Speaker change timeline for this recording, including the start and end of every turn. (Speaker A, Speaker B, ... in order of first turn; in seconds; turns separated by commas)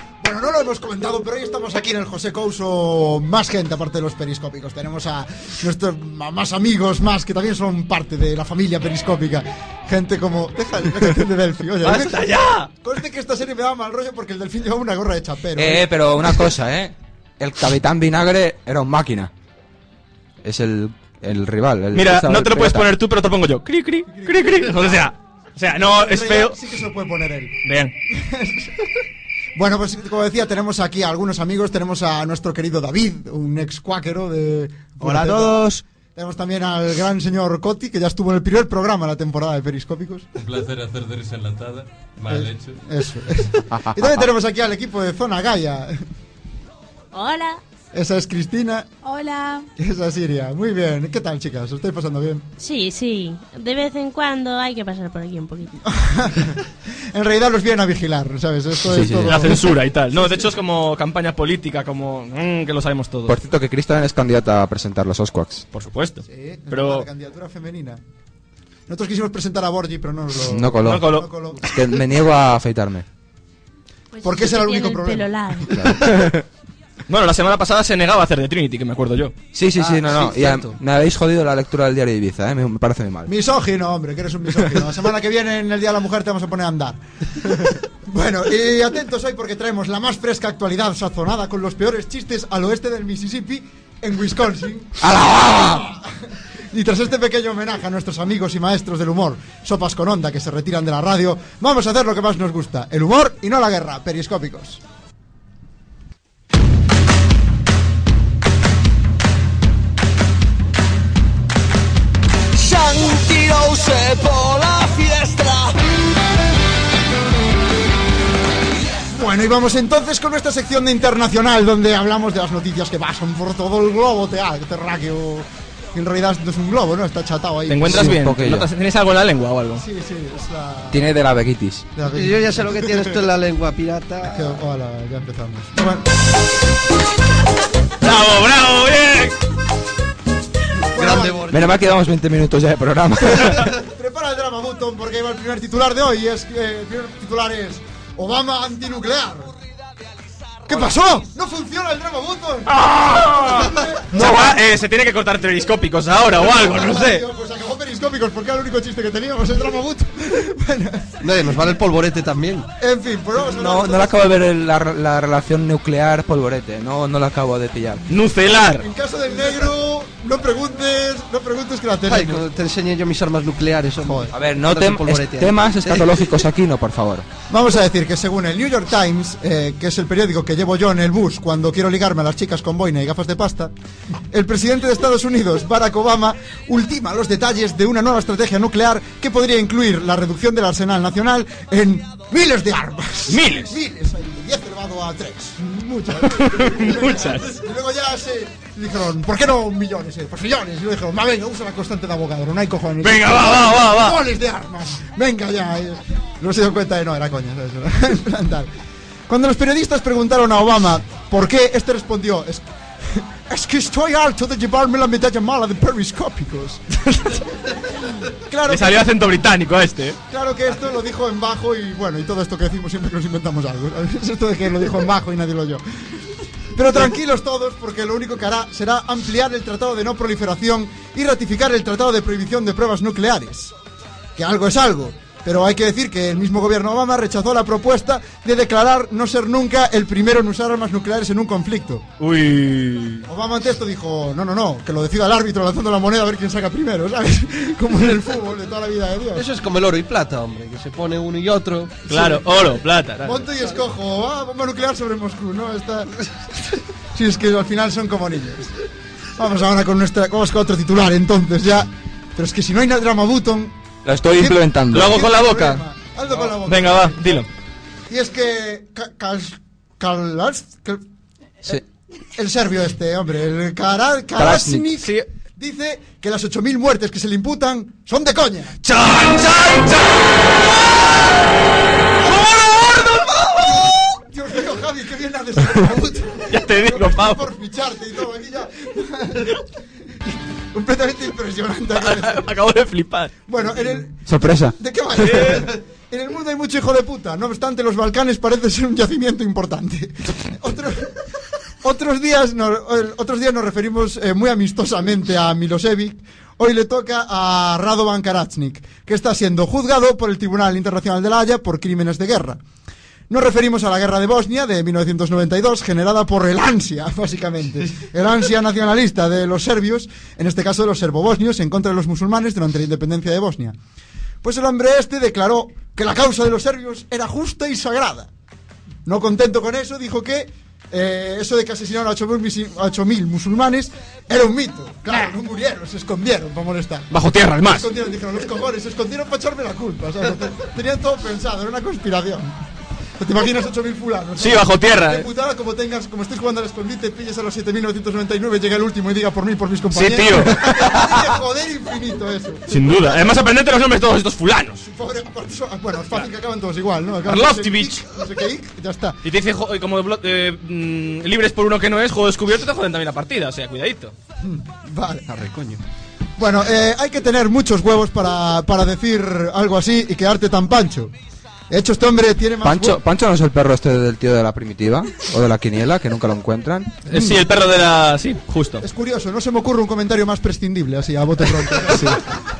Speaker A: 0.2-15.9, Speaker B: 11.8-12.7, Speaker C: 15.6-19.3, Speaker C: 20.4-22.9, Speaker B: 21.9-26.6, Speaker A: 24.1-25.1, Speaker A: 25.8-27.6, Speaker B: 27.6-27.9, Speaker A: 28.1-28.9, Speaker A: 29.5-40.3, Speaker B: 35.0-35.8, Speaker D: 40.4-42.7, Speaker A: 42.2-46.0, Speaker C: 43.7-44.3, Speaker E: 47.1-47.6, Speaker A: 47.9-48.9, Speaker E: 49.0-49.6, Speaker A: 49.8-52.5, Speaker E: 52.6-55.8, Speaker A: 55.8-60.5, Speaker C: 58.9-59.5, Speaker B: 59.3-63.4, Speaker C: 63.3-65.7, Speaker B: 65.7-67.1, Speaker A: 66.3-68.0, Speaker A: 68.9-71.7, Speaker C: 70.5-73.0, Speaker B: 70.8-71.3, Speaker E: 74.1-75.8, Speaker A: 74.2-75.9, Speaker C: 75.7-76.4, Speaker B: 76.0-76.3, Speaker B: 77.1-79.3, Speaker C: 79.5-83.3, Speaker F: 79.8-80.8, Speaker A: 83.3-96.1, Speaker C: 95.0-95.9, Speaker A: 96.7-104.8, Speaker G: 112.7-115.7, Speaker A: 119.1-128.2, Speaker B: 127.7-129.8, Speaker C: 127.8-128.7, Speaker A: 129.8-131.1, Speaker C: 130.9-131.9, Speaker A: 131.9-132.8, Speaker F: 132.1-134.6, Speaker A: 134.2-136.1, Speaker B: 138.0-139.3, Speaker A: 140.9-141.5, Speaker F: 140.9-141.7, Speaker C: 141.5-143.7, Speaker A: 143.4-149.5, Speaker A: 150.7-154.5, Speaker B: 152.7-157.2, Speaker A: 156.4-161.2, Speaker F: 161.2-162.7, Speaker A: 162.8-164.2, Speaker C: 163.5-168.0, Speaker B: 168.1-168.8, Speaker A: 168.8-172.4, Speaker F: 172.1-176.2, Speaker A: 174.0-174.3, Speaker C: 174.3-177.2, Speaker A: 177.5-183.7, Speaker A: 184.3-208.7, Speaker B: 193.3-193.7, Speaker B: 196.3-197.5, Speaker B: 203.0-204.2, Speaker A: 209.3-219.1, Speaker B: 218.7-220.2, Speaker A: 220.3-225.8, Speaker A: 226.7-233.7, Speaker A: 234.3-242.0, Speaker B: 242.2-243.3, Speaker A: 243.3-249.5, Speaker F: 249.3-252.4, Speaker B: 252.1-253.4, Speaker A: 253.2-256.2, Speaker A: 257.1-258.7, Speaker A: 259.4-263.8, Speaker C: 264.0-265.2, Speaker A: 264.3-267.4, Speaker B: 264.9-267.5, Speaker A: 268.1-271.0, Speaker A: 272.4-278.8, Speaker C: 274.4-274.9, Speaker B: 274.9-275.2, Speaker B: 278.8-281.0, Speaker B: 282.2-283.5, Speaker A: 282.2-289.6, Speaker B: 286.5-287.4, Speaker A: 290.2-292.5, Speaker B: 292.0-293.3, Speaker A: 293.5-301.2, Speaker C: 294.2-294.7, Speaker B: 295.2-295.6, Speaker A: 301.8-312.6, Speaker A: 313.3-323.7, Speaker A: 324.4-328.3, Speaker A: 329.1-337.1, Speaker B: 337.1-337.9, Speaker A: 337.6-342.6, Speaker A: 343.2-353.3, Speaker B: 344.4-345.3, Speaker B: 349.9-351.2, Speaker B: 352.7-354.8, Speaker A: 354.8-359.2, Speaker B: 357.3-358.1, Speaker B: 359.2-364.1, Speaker A: 364.4-365.3, Speaker F: 365.3-365.8, Speaker A: 366.4-371.1, Speaker A: 371.7-373.0, Speaker C: 372.6-377.0, Speaker B: 377.1-378.8, Speaker A: 377.1-377.4, Speaker A: 378.8-382.4, Speaker C: 381.9-382.2